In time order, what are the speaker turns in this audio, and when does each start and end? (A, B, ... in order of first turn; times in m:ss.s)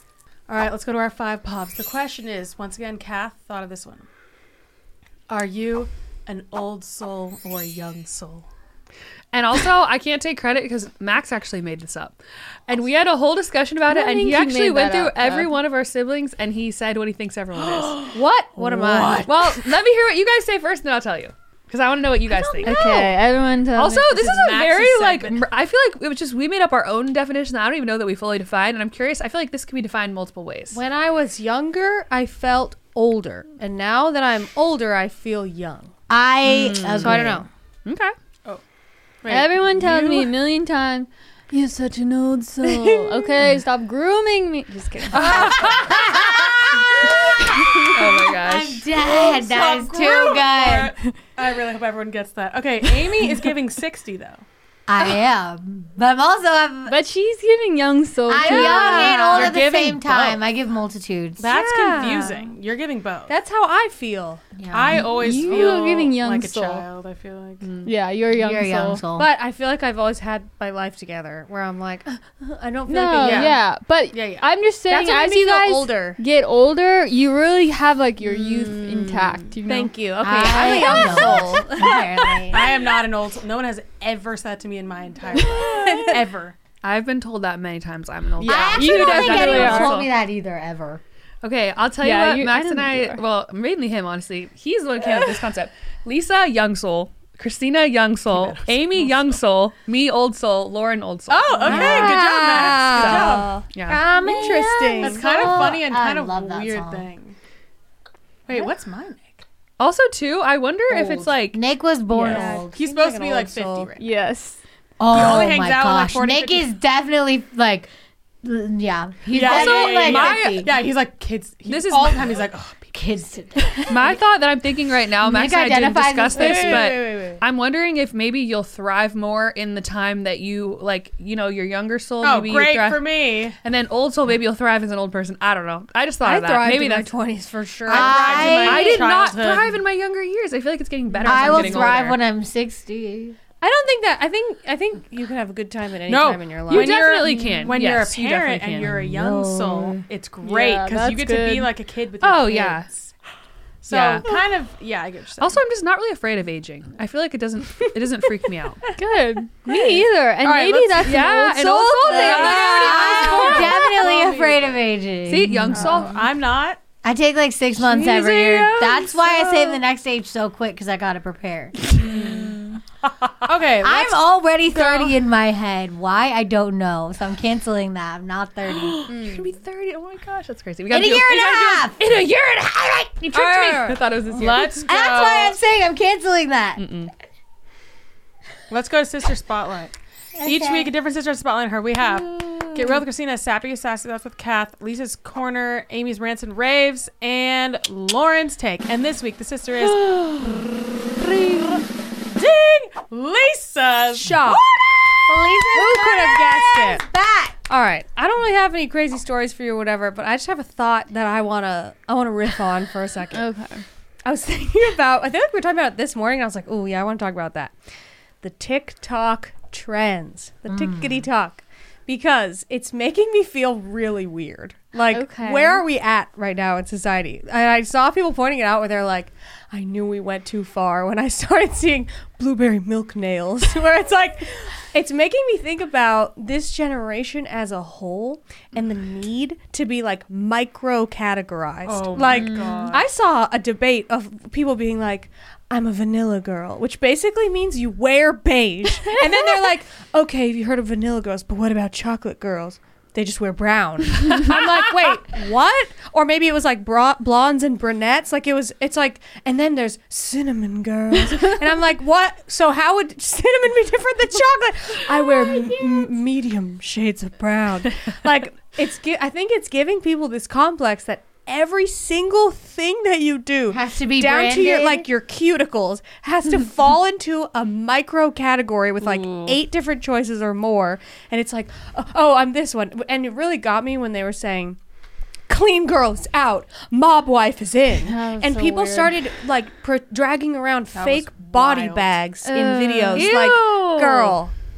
0:00.5-0:04.1 A
0:05.3-0:08.5 A
0:09.3-0:23.1 B
0:13.9-0:15.5 C
0:18.1-0:19.3 D
0:18.8-0:19.3 A
0:22.6-0:24.3 C
0:22.6-0:23.0 D
0:23.7-0:30.8 B
0:24.1-0:25.4 A
0:30.7-0:35.9 D
0:36.1-0:37.5 E
0:36.4-0:37.3 B
0:37.0-0:37.5 D
0:37.9-0:38.1 B
0:39.2-0:40.3 A
0:39.3-0:45.9 C
0:45.1-0:46.0 B
0:45.4-0:50.9 E
0:47.9-0:48.9 B
0:49.0-0:54.5 A
0:54.9-0:57.0 E
0:56.9-0:59.5 C
0:58.3-1:01.4 E
0:58.4-1:00.4 A
0:58.4-0:59.6 D
1:01.4-1:03.3 A
1:01.5-1:02.5 D
1:03.3-1:04.4 D
1:04.6-1:05.7 E
1:04.7-1:07.7 A
1:05.0-1:06.9 C
1:07.6-1:07.9 B
1:07.8-1:09.0 C
1:08.3-1:09.3 E
1:09.1-1:13.6 D
1:12.9-1:19.9 C
1:13.2-1:13.6 A
1:14.1-1:14.5 A
1:14.9-1:16.2 D
1:18.6-1:19.1 D
1:19.6-1:22.4 D
1:20.2-1:22.7 E
1:21.0-1:21.4 B
1:22.5-1:26.6 A
1:25.7-1:26.2 D
1:26.8-1:30.1 B
1:28.4-1:29.9 C
1:28.4-1:31.0 E
1:31.4-1:42.1 B
1:32.0-1:33.2 C
1:38.3-1:39.2 A
1:41.3-1:43.5 A
1:41.6-1:45.2 D
1:41.7-1:42.2 E
1:42.9-1:44.0 B
1:43.9-1:47.1 E
1:45.0-1:47.4 A
1:48.5-1:49.4 A
1:49.8-1:51.6 B
1:50.9-1:52.7 E
1:52.1-1:53.9 D
1:52.2-1:54.1 A
1:54.0-1:54.6 C
1:55.0-1:57.9 E
1:55.1-1:56.7 A
1:58.4-2:00.7 E
1:59.3-2:03.1 A
1:59.3-2:00.8 B
2:01.7-2:02.4 B
2:02.9-2:04.1 E
2:03.9-2:13.1 B
2:05.2-2:06.9 E
2:06.4-2:07.4 D
2:12.2-2:13.6 A
2:13.6-2:17.1 B
2:16.2-2:18.8 D
2:17.9-2:19.0 E
2:17.9-2:19.7 A
2:18.6-2:22.2 B
2:21.2-2:23.4 E
2:23.6-2:27.1 D
2:26.1-2:33.1 A
2:26.7-2:29.0 B
2:28.8-2:30.0 E
2:30.4-2:31.7 C
2:32.2-2:32.9 B
2:33.8-2:35.6 A
2:33.9-2:34.3 B
2:35.4-2:38.9 B
2:39.0-2:42.6 C
2:40.4-2:43.8 B
2:42.2-2:46.1 E
2:42.2-2:42.7 D
2:42.2-2:44.8 A
2:45.3-2:46.3 B
2:45.7-2:46.8 A
2:47.0-2:52.4 E
2:48.5-2:49.0 B
2:51.9-2:52.6 A
2:53.3-2:55.2 A
2:53.8-2:59.1 E
2:58.9-3:04.9 B
3:00.9-3:02.1 E
3:03.3-3:04.2 D
3:03.9-3:05.6 A
3:04.8-3:06.8 E
3:06.8-3:07.1 B
3:08.7-3:20.1 A
3:10.4-3:10.9 E
3:12.0-3:13.0 E
3:20.1-3:20.7 B
3:22.3-3:25.1 A
3:24.2-3:24.7 D
3:25.2-3:27.6 E
3:25.5-3:27.0 D
3:27.7-3:33.5 D
3:33.4-3:33.8 C
3:34.2-3:37.8 D
3:38.4-4:44.8 D
3:40.7-3:41.3 E
3:45.1-3:45.8 C
4:01.8-4:03.0 A
4:02.3-4:02.9 B
4:09.1-4:09.6 C
4:25.4-4:26.0 C
4:33.7-4:35.1 E
4:45.5-4:54.5 D
4:48.1-4:49.1 C
4:50.9-4:52.1 A
4:52.4-4:53.5 C
4:53.1-4:54.4 B